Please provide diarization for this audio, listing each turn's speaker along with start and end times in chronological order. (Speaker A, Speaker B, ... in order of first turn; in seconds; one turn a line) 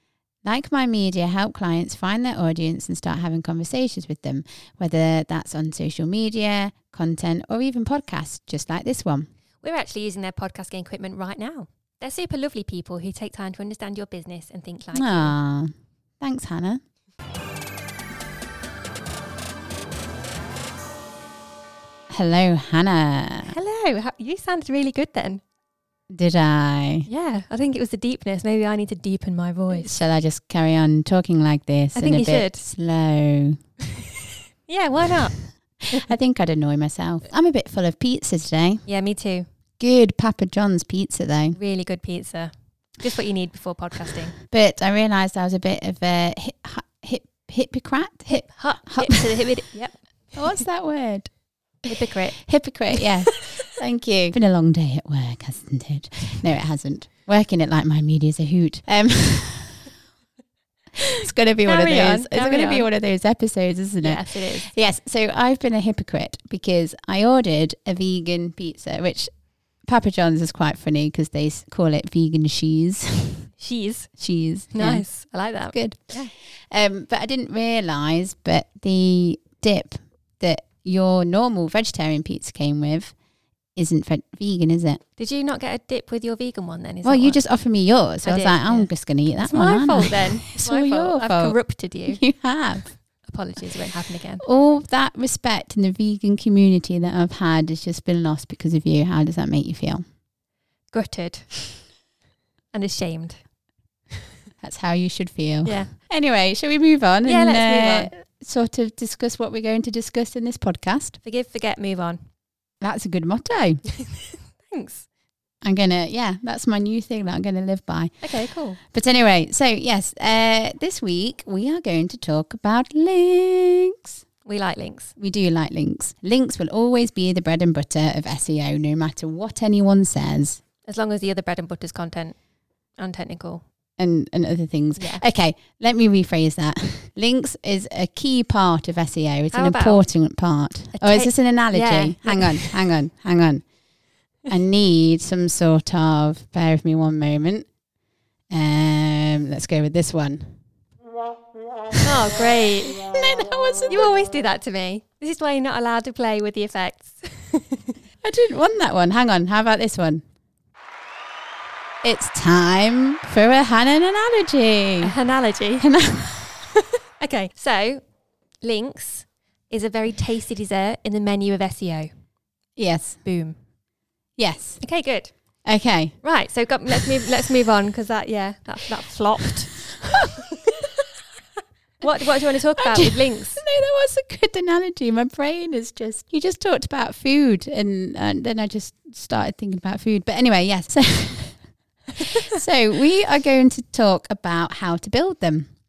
Speaker A: 0.4-9.3
Speaker B: 9.6-15.3
Speaker A: 14.9-16.8
Speaker A: 22.1-23.6
Speaker B: 23.4-25.4
Speaker A: 26.1-27.1
Speaker B: 27.1-30.0
Speaker A: 29.7-33.6
Speaker B: 31.9-32.7
Speaker B: 34.7-35.4
Speaker A: 35.9-38.8
Speaker B: 38.9-39.5
Speaker A: 39.8-41.6
Speaker B: 41.5-44.4
Speaker A: 44.5-49.5
Speaker B: 48.3-50.0
Speaker A: 50.4-51.3
Speaker A: 51.9-59.9
Speaker B: 51.9-52.4
Speaker B: 52.9-53.4
Speaker A: 61.0-69.3
Speaker B: 61.6-62.9
Speaker B: 64.0-64.7
Speaker A: 69.8-73.5
Speaker B: 73.6-74.1
Speaker A: 74.2-75.1
Speaker B: 74.7-76.3
Speaker A: 75.7-76.2
Speaker A: 76.7-83.1
Speaker A: 83.8-85.0
Speaker B: 85.2-87.4
Speaker A: 87.0-91.6
Speaker B: 88.2-92.2
Speaker A: 92.1-92.9
Speaker B: 93.2-94.4
Speaker A: 94.4-100.0
Speaker B: 100.9-101.7
Speaker B: 102.7-103.4
Speaker A: 104.6-111.2
Speaker B: 105.7-105.9
Speaker B: 107.2-108.1
Speaker B: 111.2-112.2
Speaker A: 112.8-113.8
Speaker B: 113.9-115.1
Speaker A: 115.6-124.2
Speaker B: 118.2-118.8
Speaker B: 124.5-125.1
Speaker A: 125.2-130.6
Speaker B: 130.8-132.4
Speaker B: 133.0-133.6
Speaker A: 134.0-143.6
Speaker B: 135.0-135.2
Speaker B: 139.5-140.0
Speaker B: 140.9-142.8
Speaker A: 144.5-147.7
Speaker A: 148.5-150.6
Speaker B: 152.0-153.1
Speaker A: 153.0-154.1
Speaker B: 153.9-157.9
Speaker A: 158.2-160.2
Speaker A: 162.0-165.1
Speaker B: 165.0-165.9
Speaker A: 165.8-166.7
Speaker B: 166.7-168.0
Speaker B: 168.6-172.1
Speaker A: 172.8-173.2
Speaker B: 173.2-173.6
Speaker A: 174.4-174.8
Speaker B: 174.8-175.3
Speaker A: 175.7-176.2
Speaker B: 176.2-180.9
Speaker A: 180.0-180.4
Speaker B: 182.0-183.6
Speaker A: 182.3-191.6
Speaker A: 192.2-195.7